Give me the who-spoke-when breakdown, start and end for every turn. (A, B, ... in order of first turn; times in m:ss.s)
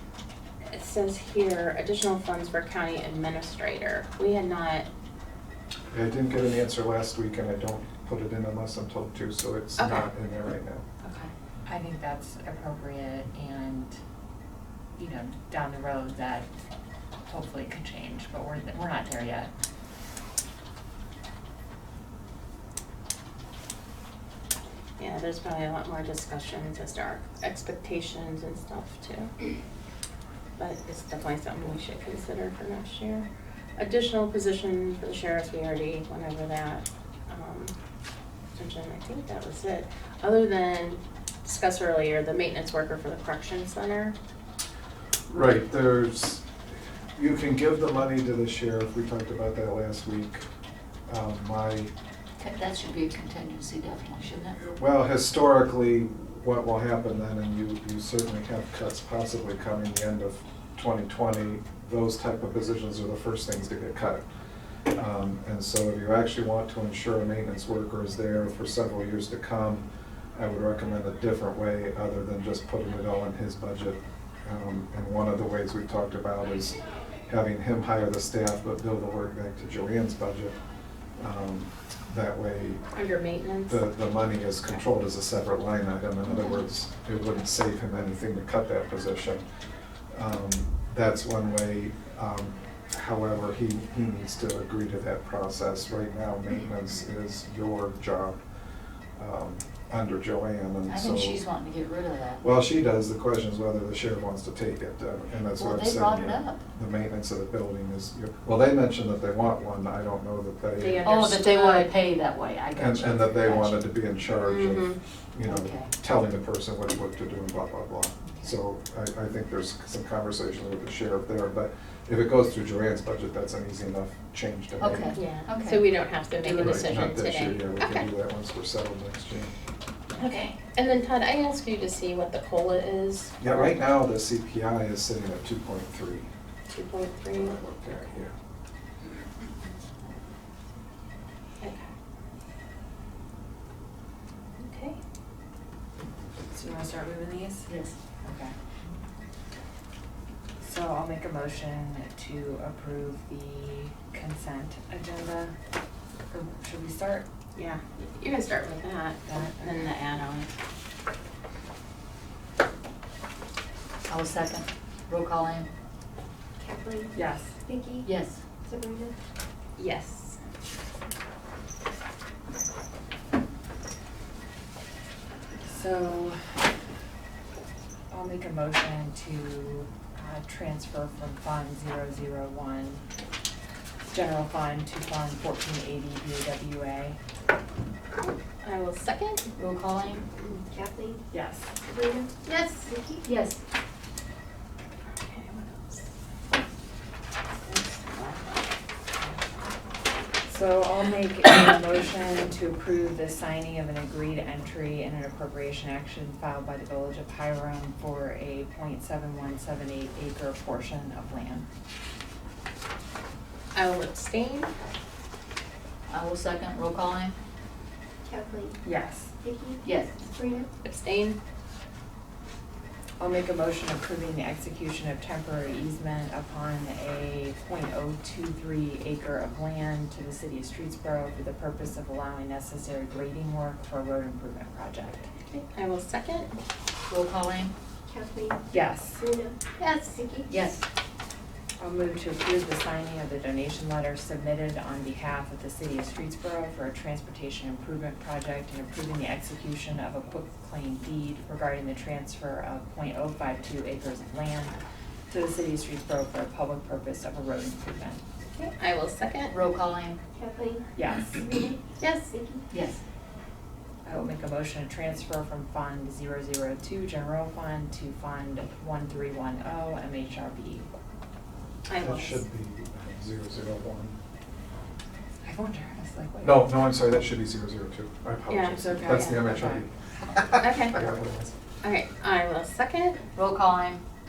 0:00.7-0:04.8 A
0:05.9-0:10.8 B
0:09.8-0:10.1 A
0:11.0-0:14.0 C
0:15.0-0:16.5 C
0:17.2-0:19.5 C
0:25.0-0:29.3 A
0:30.6-0:33.3 A
0:33.8-0:37.7 A
0:38.6-0:44.2 A
0:45.3-0:46.4 B
0:47.2-0:50.3 B
0:51.1-0:51.9 B
0:52.4-0:54.6 D
0:54.6-1:04.2 B
1:05.0-1:09.8 B
1:10.4-1:16.8 B
1:17.3-1:20.6 B
1:21.2-1:22.8 B
1:22.9-1:23.8 A
1:23.7-1:29.4 B
1:30.1-1:38.4 B
1:39.2-1:41.4 B
1:40.9-1:42.6 D
1:42.4-1:51.0 B
1:45.4-1:46.6 D
1:50.8-1:51.9 A
1:50.9-1:51.3 C
1:51.0-1:53.9 D
1:52.8-1:58.0 B
1:54.2-1:55.0 A
1:55.4-1:55.9 D
1:58.6-2:05.0 B
2:04.8-2:05.9 D
2:05.1-2:08.1 A
2:06.4-2:06.9 D
2:06.8-2:09.2 B
2:10.2-2:10.5 D
2:10.2-2:13.7 A
2:14.3-2:16.2 B
2:16.7-2:18.2 A
2:17.6-2:18.2 B
2:21.6-2:21.9 A
2:24.6-2:25.0 A
2:26.5-2:27.7 C
2:27.7-2:28.0 D
2:28.2-2:28.5 C
2:30.6-2:35.5 C
2:36.3-2:37.2 C
2:37.6-2:40.5 A
2:39.2-2:39.6 C
2:44.1-2:45.7 D
2:46.6-2:47.1 E
2:47.1-2:47.5 C
2:47.6-2:48.1 E
2:48.0-2:48.4 D
2:48.6-2:49.1 E
2:49.8-2:50.4 A
2:55.6-2:56.4 C
2:58.1-3:03.0 C
3:04.1-3:07.2 C
3:08.2-3:09.4 A
3:09.6-3:10.2 D
3:10.7-3:11.2 E
3:11.3-3:11.7 C
3:11.8-3:12.3 E
3:12.4-3:13.2 A
3:13.2-3:13.6 D
3:15.1-3:16.1 A
3:17.6-3:18.6 A
3:20.4-3:31.6 C
3:33.7-3:34.7 A
3:36.1-3:37.3 D
3:38.2-3:38.8 E
3:38.8-3:39.3 C
3:39.4-3:40.7 E
3:39.8-3:40.1 D
3:40.8-3:41.4 A
3:43.2-3:55.3 C
3:55.5-3:56.5 A
3:57.1-3:57.7 D
3:58.0-3:58.6 E
3:58.7-3:59.2 C
3:59.2-3:59.6 E
3:59.8-4:00.3 A
4:00.2-4:00.5 E
4:00.5-4:00.8 D
4:01.8-4:14.7 C
4:15.3-4:18.2 C
4:18.5-4:19.5 A
4:19.5-4:20.2 D
4:20.4-4:21.8 E
4:21.0-4:21.4 C
4:21.9-4:22.4 A
4:22.3-4:22.6 E
4:22.7-4:23.0 D
4:24.0-4:30.8 C
4:31.8-4:32.4 A
4:32.0-4:34.1 B
4:35.4-4:36.9 C
4:36.9-4:39.8 B
4:38.5-4:39.0 A
4:38.8-4:39.8 C
4:40.4-4:41.5 B
4:40.5-4:41.0 A
4:41.8-4:43.2 A
4:43.3-4:44.0 D